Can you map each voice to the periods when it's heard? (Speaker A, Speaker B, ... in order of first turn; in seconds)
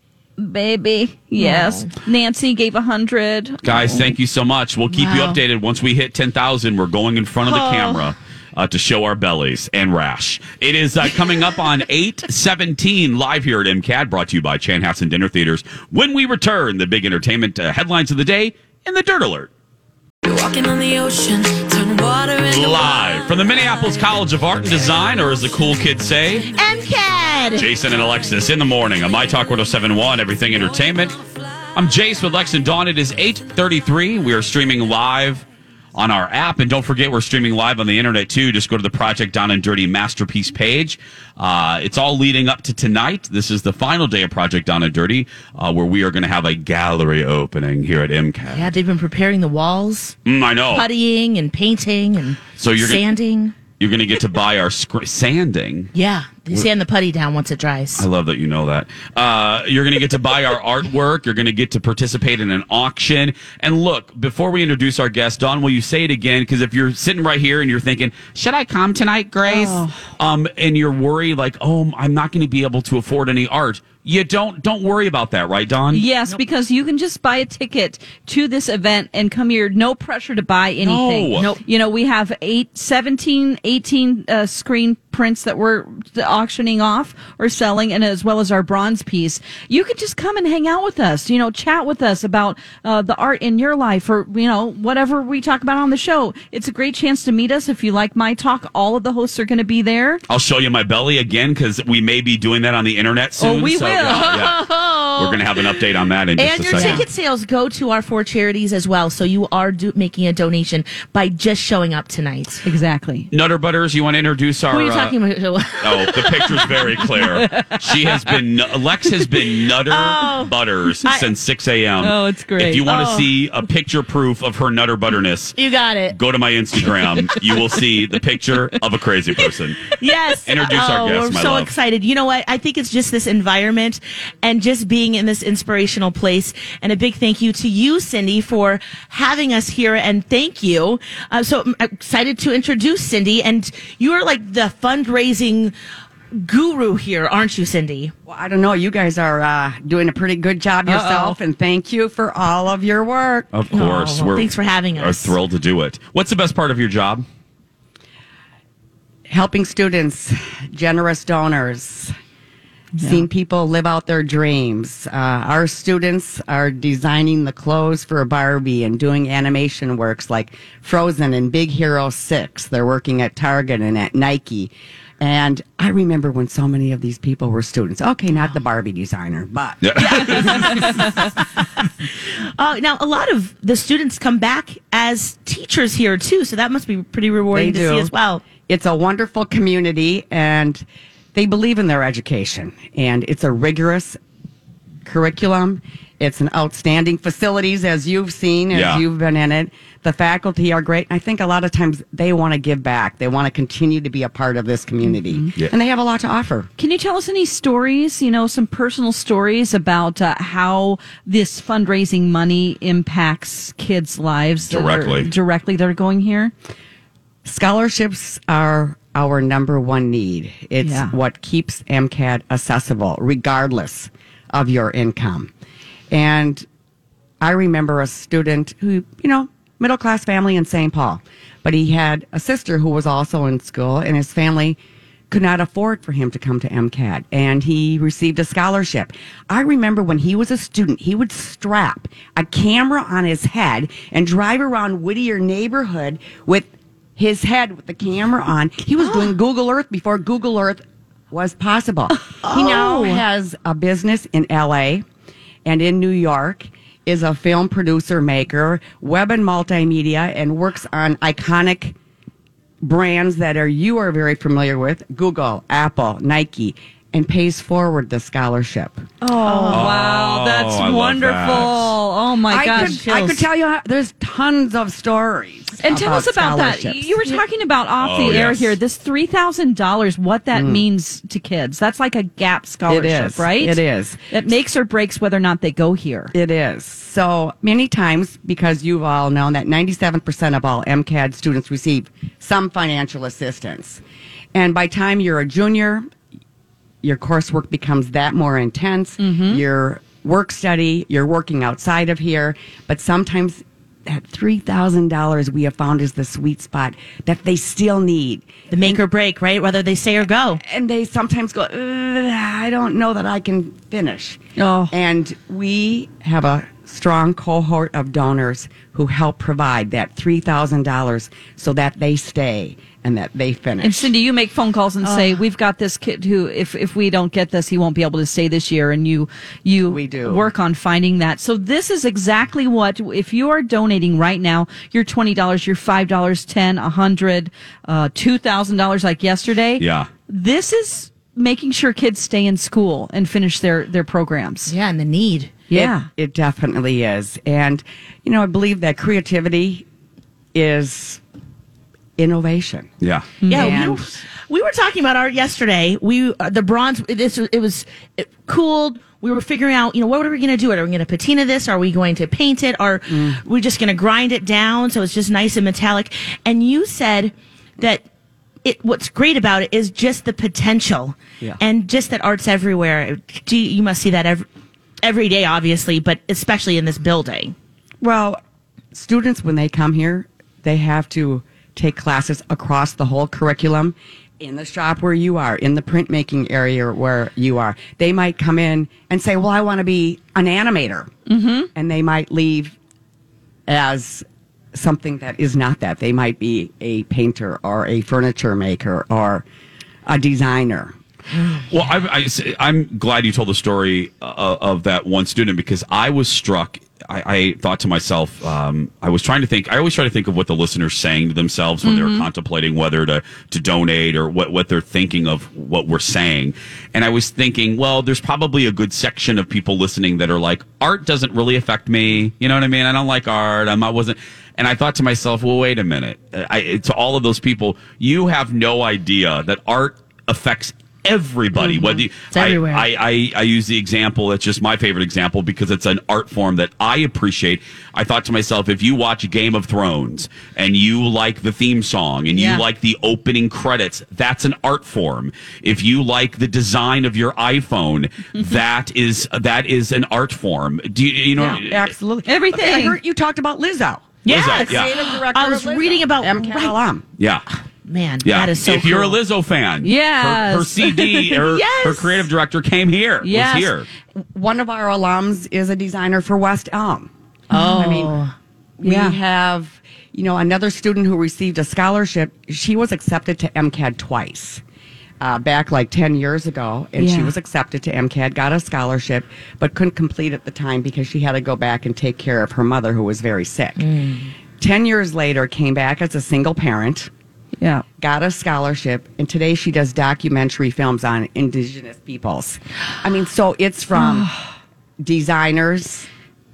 Speaker A: 0.4-4.1, 69.4-70.0, 75.9-100.2, 103.4-104.5, 106.7-107.1, 112.6-113.3, 117.2-118.4, 122.0-122.9, 127.0-127.8, 150.8-151.4, 162.9-163.2, 205.0-205.5, 206.8-216.5, 220.8-221.1, 252.4-253.2, 269.3-273.0, 275.8-286.3, 299.2-299.6, 314.6-314.9, 323.8-344.7, 345.7-346.1, 353.4-353.9, 391.3-391.7, 411.8-412.3, 442.3-442.6, 452.2-453.0, 459.8-461.4, 463.2-463.8, 468.8-469.2, 477.0-477.3, 487.6-487.8, 493.9-494.4
Speaker B: 1.4-1.9, 5.0-5.3, 7.4-8.1, 26.6-27.7, 48.5-50.1, 50.7-53.5, 55.9-58.0, 81.3-81.6, 104.0-112.6, 114.7-117.2, 119.8-121.3, 122.8-123.3, 125.6-126.2, 130.0-145.7, 146.3-148.1, 153.7-155.3, 180.0-180.8, 182.6-188.4, 252.4-253.1, 269.2-269.9, 272.7-273.4, 308.7-310.6, 325.0-325.4, 344.7-345.6, 353.5-368.0, 368.6-374.4, 375.0-377.5, 431.6-432.8, 454.2-456.8, 457.8-459.2, 461.4-462.3, 467.5-468.3, 483.8-484.3
Speaker C: 3.6-19.5, 22.5-26.5, 27.5-31.2, 31.7-48.7, 50.2-50.9, 52.6-53.0, 53.8-55.9, 58.0-76.0, 80.8-81.5, 100.3-107.1, 113.3-115.2, 115.8-125.6, 126.1-129.9, 130.4-131.7, 153.5-157.2, 179.8-180.9, 198.7-199.0, 214.7-215.3, 269.7-271.9, 278.0-278.8, 339.8-340.1, 353.0-353.3, 401.7-451.9, 454.2-454.9, 457.2-457.4, 458.2-463.9
Speaker D: 20.2-23.4
Speaker E: 148.3-153.5, 159.3-162.1, 163.0-181.0, 187.5-188.1, 188.6-194.2, 195.0-206.7, 217.4-225.5, 226.1-226.7, 227.4-234.8, 235.3-255.0, 255.6-261.9, 262.8-269.7, 272.5-277.1, 280.5-280.8, 282.9-284.2, 286.3-294.0, 294.5-296.1, 297.0-309.0, 310.6-324.1, 329.9-330.4, 345.7-349.9, 350.5-351.2, 352.2-352.9, 353.4-354.2, 363.1-363.4, 378.0-378.4, 378.9-391.1, 391.7-392.8, 393.7-399.4, 400.0-400.9, 451.4-457.0, 464.3-468.2, 468.8-474.6, 475.2-483.9, 484.6-487.1, 488.0-494.3, 495.0-496.1